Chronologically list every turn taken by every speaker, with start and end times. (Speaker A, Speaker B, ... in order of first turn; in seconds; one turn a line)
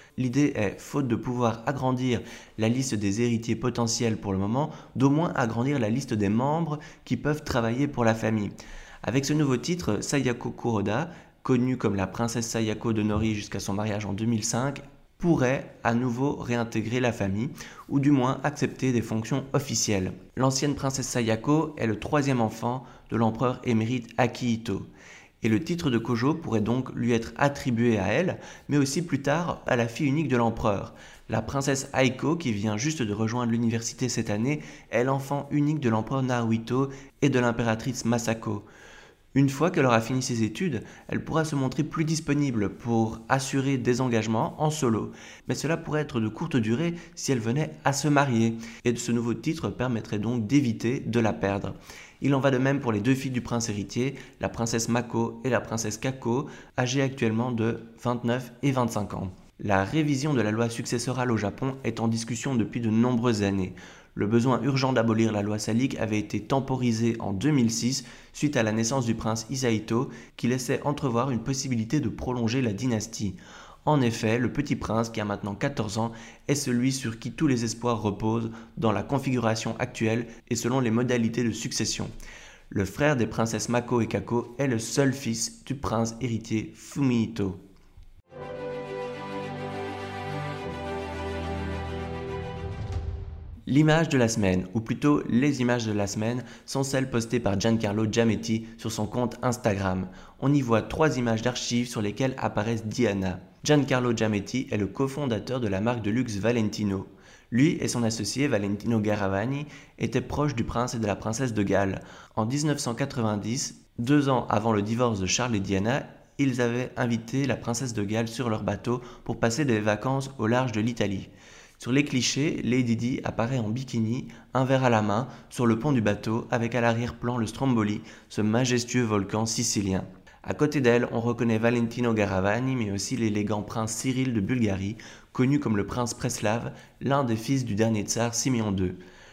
Speaker A: 0.2-24.9
Speaker A: 25.4-38.6
Speaker A: 39.3-82.1
Speaker A: 82.7-87.6
Speaker A: 93.7-139.0